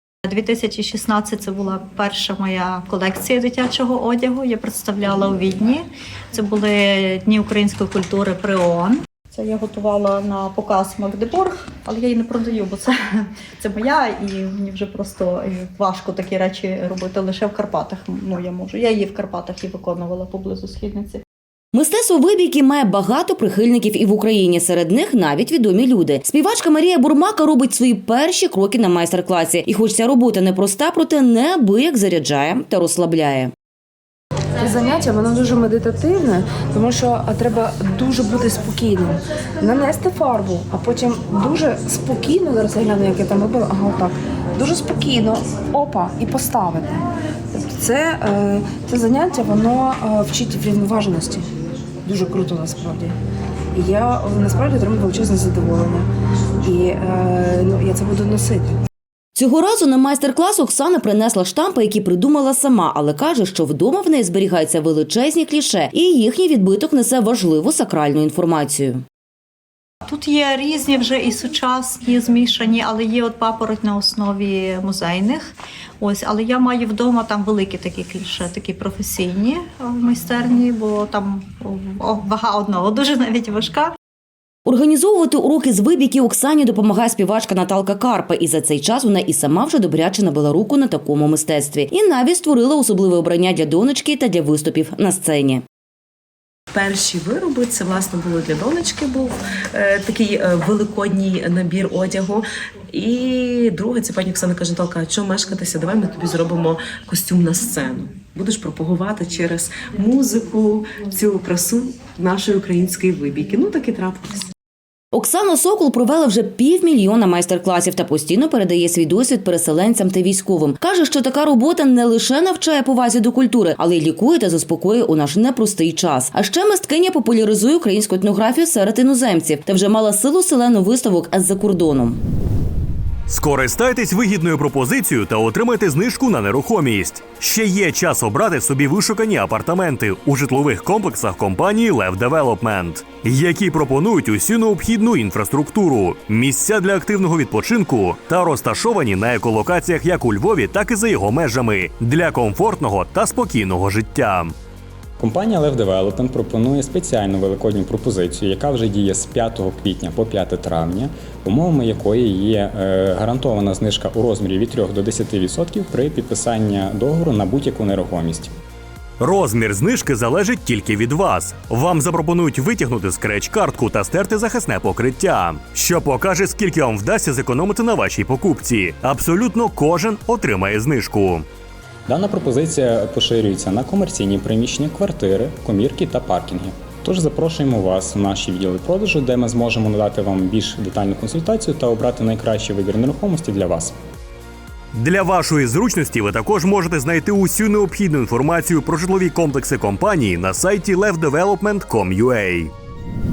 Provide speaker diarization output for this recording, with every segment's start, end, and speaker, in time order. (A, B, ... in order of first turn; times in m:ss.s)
0:00.2-0:21.2 A
0:21.7-0:33.5 B
0:34.6-0:47.0 C
0:47.5-0:51.4 C
0:52.0-0:53.1 C
0:53.7-0:56.1 C
0:56.6-0:58.7 C
0:59.4-1:09.0 B
1:10.0-1:23.9 A
1:24.6-1:35.6 B
1:36.7-1:54.4 D
1:55.1-2:12.2 B
2:13.3-2:34.5 E
2:35.2-2:48.5 F
2:49.2-3:01.4 E
3:02.1-3:13.9 F
3:14.9-3:22.7 E